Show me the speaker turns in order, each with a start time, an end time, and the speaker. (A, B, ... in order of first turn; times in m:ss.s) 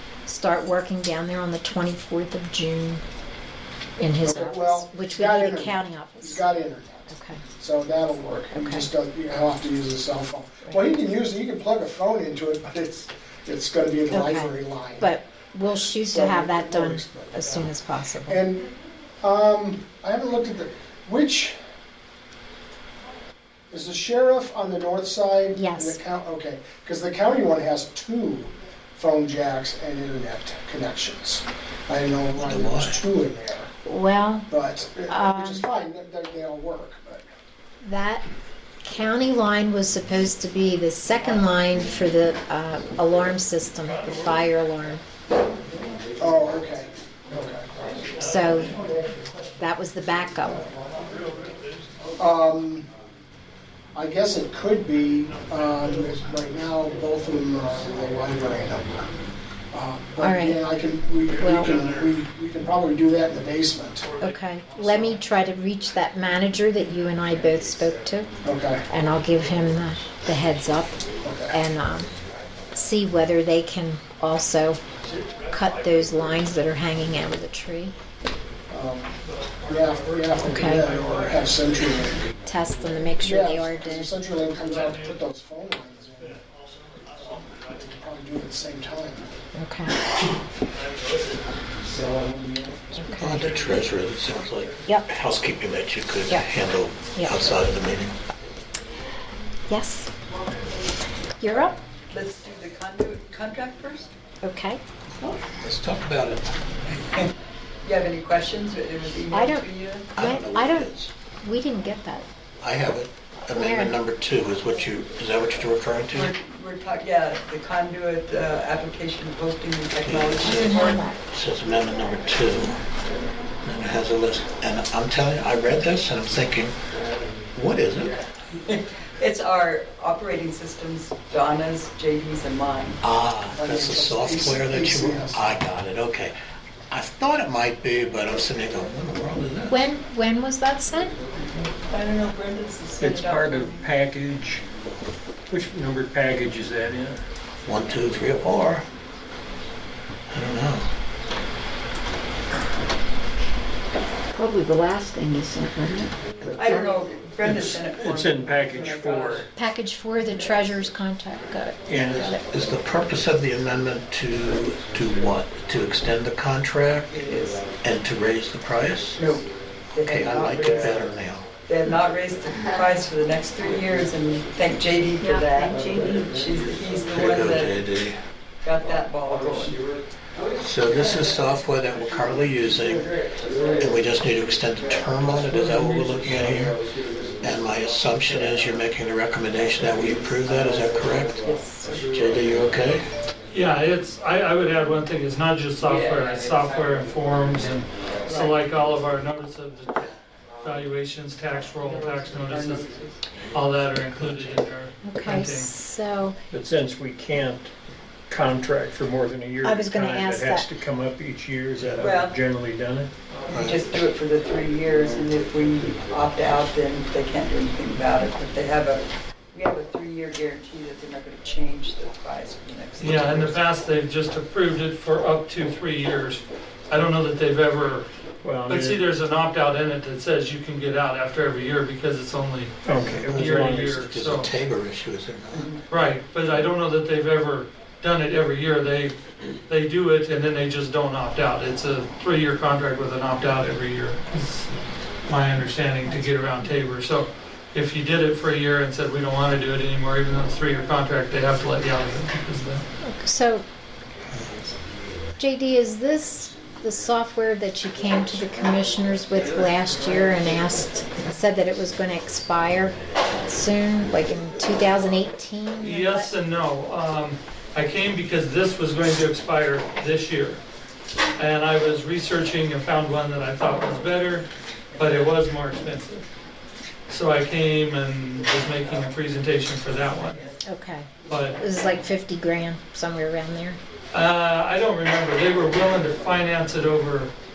0:00.3-0:03.0 A
0:04.0-0:06.4 A
0:04.2-0:15.1 B
0:07.1-0:07.4 A
0:08.5-0:08.9 A
0:14.1-0:18.4 A
0:15.7-0:17.7 B
0:18.3-0:18.7 B
0:19.2-0:21.6 B
0:23.7-0:33.7 B
0:25.6-0:26.0 A
0:32.4-0:33.0 C
0:33.9-0:34.5 A
0:34.5-0:37.2 B
0:35.1-0:35.7 A
0:37.8-0:38.2 A
0:38.8-0:45.0 A
0:46.2-0:47.7 B
0:48.2-0:48.7 A
0:49.6-0:50.7 A
0:52.2-0:52.9 B
0:53.9-0:59.1 B
0:59.7-1:04.1 B
1:00.2-1:00.6 A
1:01.4-1:01.7 A
1:04.2-1:08.3 A
1:08.4-1:08.8 B
1:08.9-1:11.0 A
1:11.2-1:11.6 B
1:11.5-1:12.1 A
1:12.7-1:14.8 A
1:15.5-1:17.9 A
1:18.7-1:19.1 B
1:19.7-1:22.2 B
1:20.4-1:20.9 A
1:22.5-1:24.1 A
1:23.2-1:26.4 B
1:27.6-1:29.3 B
1:29.6-1:29.9 A
1:33.0-1:33.5 A
1:33.0-1:38.1 C
1:39.7-1:40.1 A
1:41.4-1:41.8 A
1:42.1-1:44.1 D
1:44.4-1:44.8 A
1:45.6-1:46.5 C
1:47.8-1:50.1 D
1:49.3-1:49.7 A
1:50.2-1:51.1 C
1:50.2-1:52.3 A
1:52.6-1:56.3 C
1:53.5-1:54.0 A
1:56.1-2:01.1 D
2:00.0-2:02.8 C
2:00.4-2:01.2 A
2:03.6-2:06.8 C
2:07.5-2:08.2 C
2:08.5-2:13.0 D
2:13.0-2:16.4 C
2:13.5-2:15.5 B
2:16.9-2:19.9 C
2:19.7-2:21.2 A
2:21.8-2:23.9 D
2:23.0-2:24.6 E
2:25.5-2:27.2 E
2:27.6-2:28.8 C
2:30.3-2:30.9 C
2:34.4-2:36.1 F
2:36.4-2:36.9 C
2:36.5-2:39.5 D
2:37.4-2:39.5 E
2:39.6-2:42.5 A
2:41.9-2:42.2 E
2:42.0-2:47.1 C
2:47.1-2:47.7 D
2:47.8-2:49.2 C
2:49.2-2:50.9 D
2:50.0-2:51.5 C
2:51.7-2:57.8 D
2:55.2-2:56.3 F
2:57.1-2:58.2 C
2:58.6-2:59.8 D
3:00.6-3:03.1 C
3:03.8-3:06.8 C
3:07.4-3:11.4 C
3:11.4-3:12.1 D
3:12.1-3:13.0 C
3:13.5-3:22.9 G
3:15.8-3:16.5 D
3:18.3-3:18.6 D
3:21.8-3:23.2 D
3:23.5-3:25.7 G
3:24.1-3:24.6 C
3:25.0-3:26.4 A
3:26.5-3:27.7 E
3:28.3-3:33.1 E
3:29.6-3:30.7 A
3:32.0-3:32.4 D
3:33.5-3:43.6 D
3:33.5-3:33.8 C
3:43.0-3:48.1 G
3:48.4-3:49.0 E
3:48.6-3:52.8 G
3:52.8-3:54.0 E
3:53.0-3:55.7 C
3:53.3-3:54.5 G
3:55.5-3:55.8 D
3:55.9-3:59.2 G
3:59.7-4:04.7 G
4:05.3-4:12.8 G
4:06.1-4:06.6 A
4:13.0-4:13.6 A
4:15.4-4:23.0 A
4:23.5-4:26.3 A
4:25.8-4:30.6 G
4:31.4-4:36.2 G
4:37.1-4:40.4 G
4:40.6-4:43.8 A
4:41.3-4:41.6 G
4:44.1-4:47.3 G